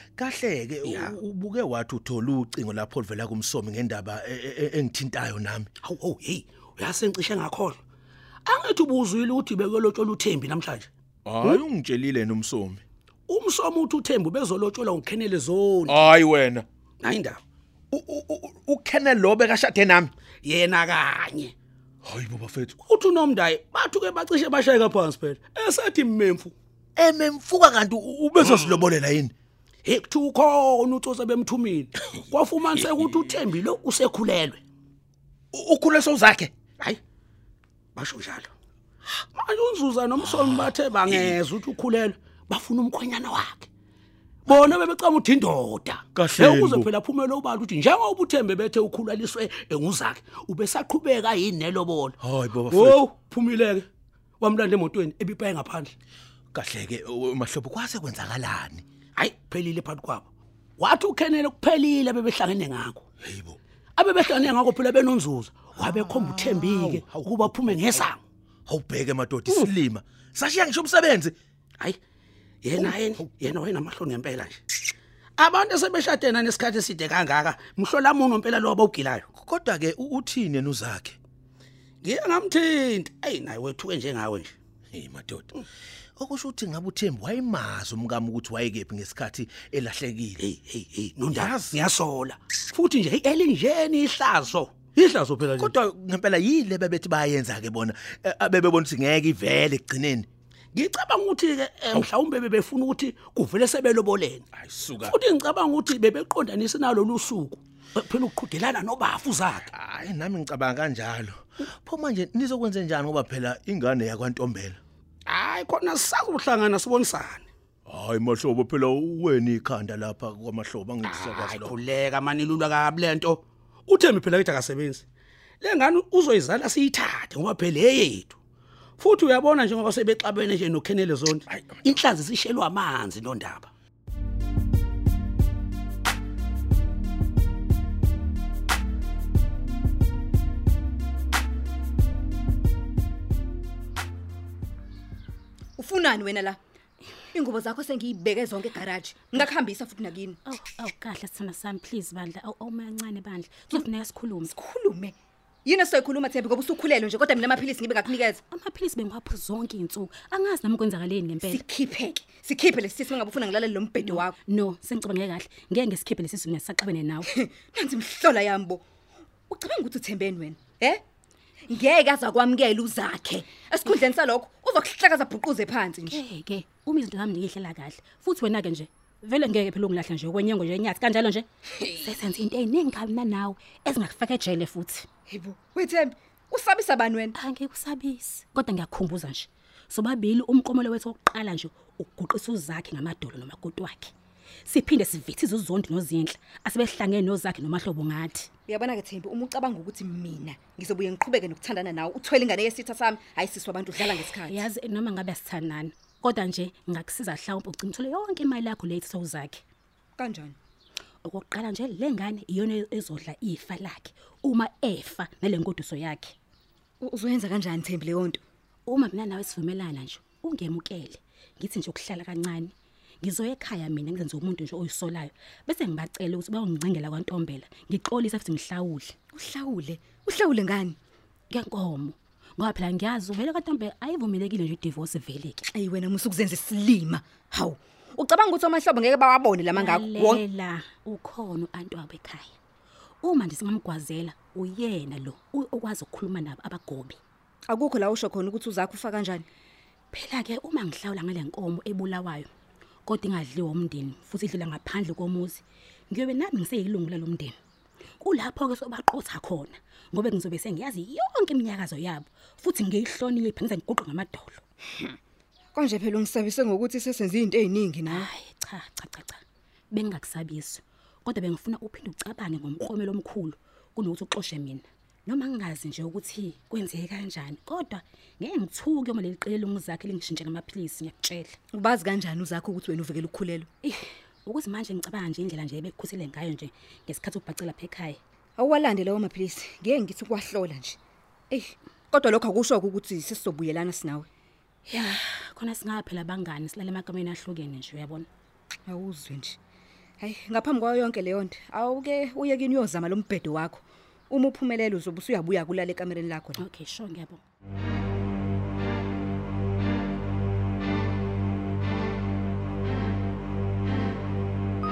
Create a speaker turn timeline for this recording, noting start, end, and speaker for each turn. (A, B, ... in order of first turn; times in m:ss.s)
0:00.2-0:05.7 A
0:00.8-0:01.2 B
0:05.8-0:07.8 B
0:08.5-0:10.9 B
0:11.3-0:12.8 A
0:13.3-0:16.2 B
0:15.9-0:16.6 A
0:17.0-0:17.4 B
0:17.9-0:20.1 A
0:20.4-0:21.5 B
0:22.0-0:22.7 A
0:22.8-0:26.5 B
0:27.0-0:29.3 A
0:28.4-0:28.9 B
0:29.8-0:34.6 B
0:35.5-0:36.5 A
0:38.0-0:38.5 B
0:39.3-0:43.7 B
0:44.5-0:52.2 B
0:46.2-0:46.9 A
0:52.2-0:53.0 A
0:52.7-0:53.9 B
0:54.4-0:55.9 B
0:56.5-0:58.8 A
0:59.2-1:00.3 B
1:00.8-1:03.0 B
1:03.2-1:03.6 A
1:04.0-1:08.2 B
1:06.4-1:07.0 A
1:08.7-1:11.4 A
1:12.6-1:14.8 B
1:15.4-1:19.3 B
1:19.4-1:21.2 A
1:22.0-1:24.5 B
1:24.9-1:25.4 A
1:26.2-1:30.4 A
1:30.4-1:35.8 B
1:31.4-1:31.8 A
1:35.6-1:40.3 A
1:40.8-1:44.5 B
1:44.6-1:45.1 A
1:45.0-1:49.7 B
1:49.7-1:54.8 A
1:55.3-1:57.5 B
1:57.9-2:01.7 A
2:01.0-2:05.1 B
2:05.6-2:08.4 B
2:09.0-2:13.7 B
2:25.8-2:26.6 C
2:27.3-2:30.4 C
2:30.5-2:34.5 D
2:34.5-2:35.1 C
2:35.6-2:38.4 C
2:38.5-2:41.7 D
2:41.4-2:44.3 C
2:44.0-2:47.3 D
2:47.3-2:48.8 C
2:49.5-2:51.0 C
2:51.7-2:56.2 C
2:56.1-3:05.1 D
3:05.3-3:07.4 C
3:07.4-3:14.1 D
3:14.7-3:18.5 D
3:18.7-3:24.7 C
3:24.0-3:29.6 D
3:30.2-3:30.6 C
3:31.2-3:36.4 D
3:37.0-3:38.4 C
3:38.9-3:49.2 D
3:49.3-3:51.0 C
3:51.5-3:55.6 D
3:55.7-4:00.4 C
3:59.7-4:02.6 D
4:03.2-4:07.2 D
4:07.7-4:09.4 C
4:10.1-4:12.5 D
4:13.1-4:17.6 D
4:18.2-4:24.6 D
4:25.8-4:28.3 C
4:28.1-4:41.6 D
4:41.7-4:43.7 C
4:43.8-4:48.2 D
4:48.6-4:51.0 C
4:51.5-4:54.3 C
4:54.9-4:58.3 D
4:58.9-4:59.6 C
5:00.2-5:06.6 C
5:06.6-5:07.4 D